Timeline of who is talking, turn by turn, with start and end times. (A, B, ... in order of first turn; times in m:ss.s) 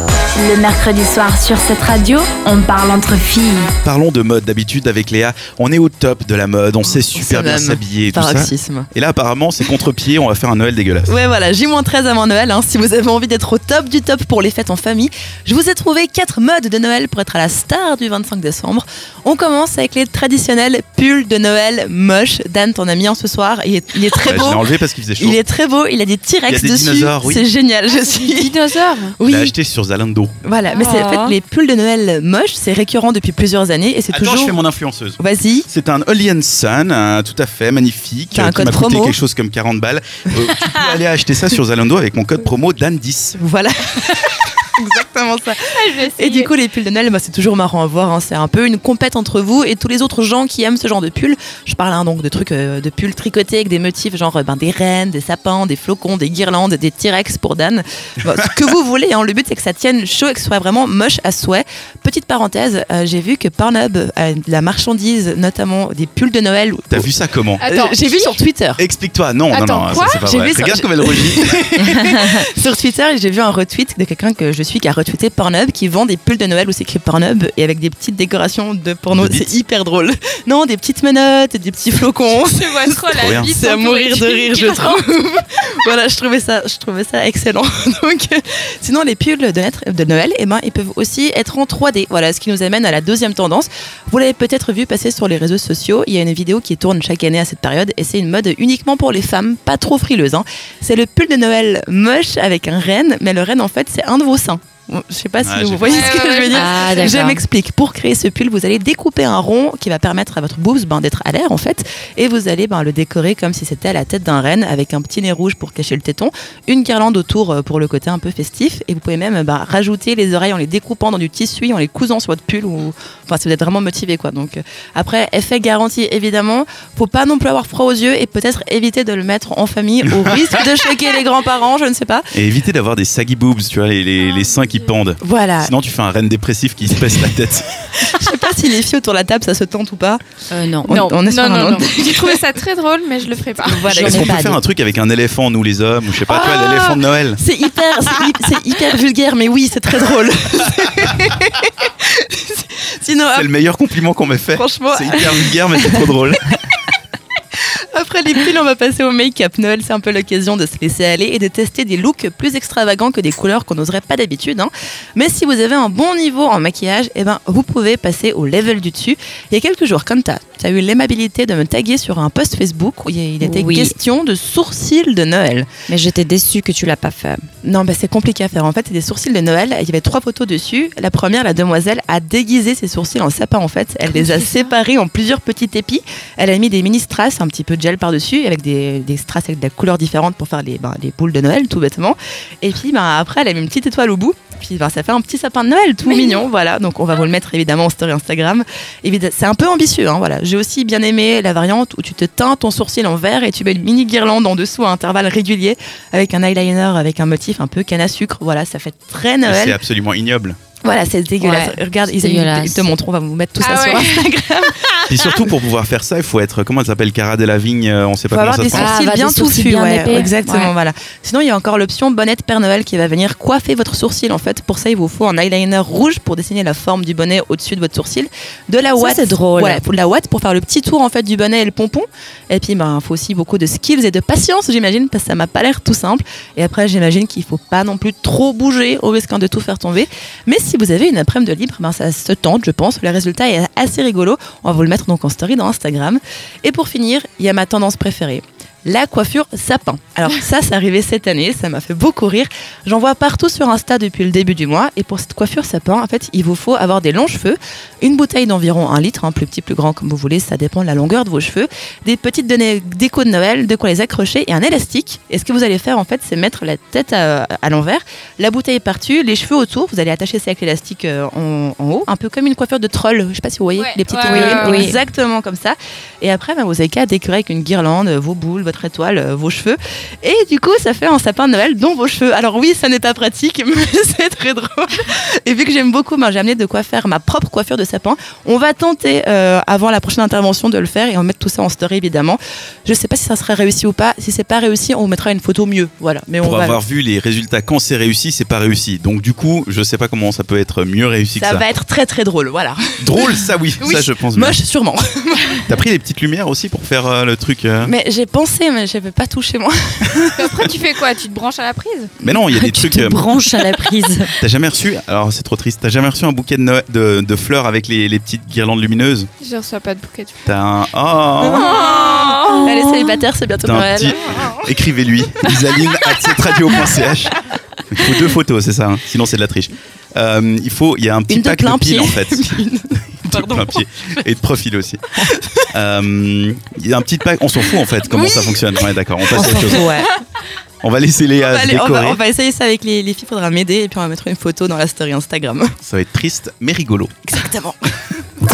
0:00.3-0:03.7 A
0:03.8-0:11.2 B
0:06.9-0:08.9 C
0:11.1-0:24.6 C
0:24.2-0:25.4 B
0:25.2-0:28.5 C
0:26.5-0:27.5 B
0:27.9-0:29.2 D
0:29.2-0:29.6 C
0:29.2-0:30.4 B
0:30.4-0:34.6 C
0:30.7-0:31.1 D
0:30.8-0:31.3 E
0:34.1-0:43.4 B
0:35.2-0:35.7 C
0:38.3-0:39.2 C
0:43.4-1:07.1 C
0:45.6-0:46.5 D
1:06.9-1:07.6 B
1:07.6-1:08.8 C
1:07.6-1:08.4 D
1:08.8-1:11.7 B
1:09.5-1:10.2 D
1:10.2-2:12.3 C
1:19.1-1:19.6 B
1:22.3-1:25.0 D
1:23.2-1:23.5 B
1:45.4-1:46.0 B
1:45.8-1:47.2 D
1:46.5-1:47.4 E
2:10.1-2:10.7 B
2:12.3-2:18.3 B
2:15.2-2:15.7 C
2:18.0-2:22.4 C
2:20.5-2:21.1 E
2:21.1-2:24.2 D
2:23.6-2:24.6 C
2:23.8-2:27.4 B
2:24.1-2:24.4 E
2:26.3-2:33.5 C
2:33.3-2:36.4 B
2:34.5-2:36.0 C
2:37.6-2:55.7 C
2:53.4-2:54.0 E
2:55.9-2:57.5 E
2:57.6-3:29.8 C
3:16.0-3:16.4 D
3:29.5-3:30.6 B
3:30.8-3:34.8 C
3:31.4-3:32.9 E
3:33.6-3:34.3 D
3:35.1-3:39.0 B
3:38.3-4:56.8 C
3:38.7-3:40.7 E
3:48.9-3:49.8 E
4:33.8-4:34.9 D
4:34.2-4:35.0 E
4:56.4-5:01.7 B
5:01.4-5:05.7 C
5:03.0-5:04.6 B
5:05.7-5:07.9 B
5:07.8-5:10.7 C
5:10.4-5:12.1 D
5:12.2-5:13.2 B
5:12.5-5:14.3 E
5:14.4-5:19.3 B
5:19.4-5:20.5 D
5:20.5-5:21.8 B
5:21.4-5:24.7 C
5:21.5-5:22.7 D
5:22.5-5:23.0 E
5:23.6-5:32.6 B
5:31.3-5:34.1 C
5:33.2-5:35.0 B
5:35.2-5:35.6 C
5:35.7-5:39.9 B
5:38.0-5:40.1 C
5:39.3-5:40.1 E
5:40.8-5:42.2 B
5:41.4-5:45.8 C
5:45.8-5:47.2 B
5:47.3-5:47.8 C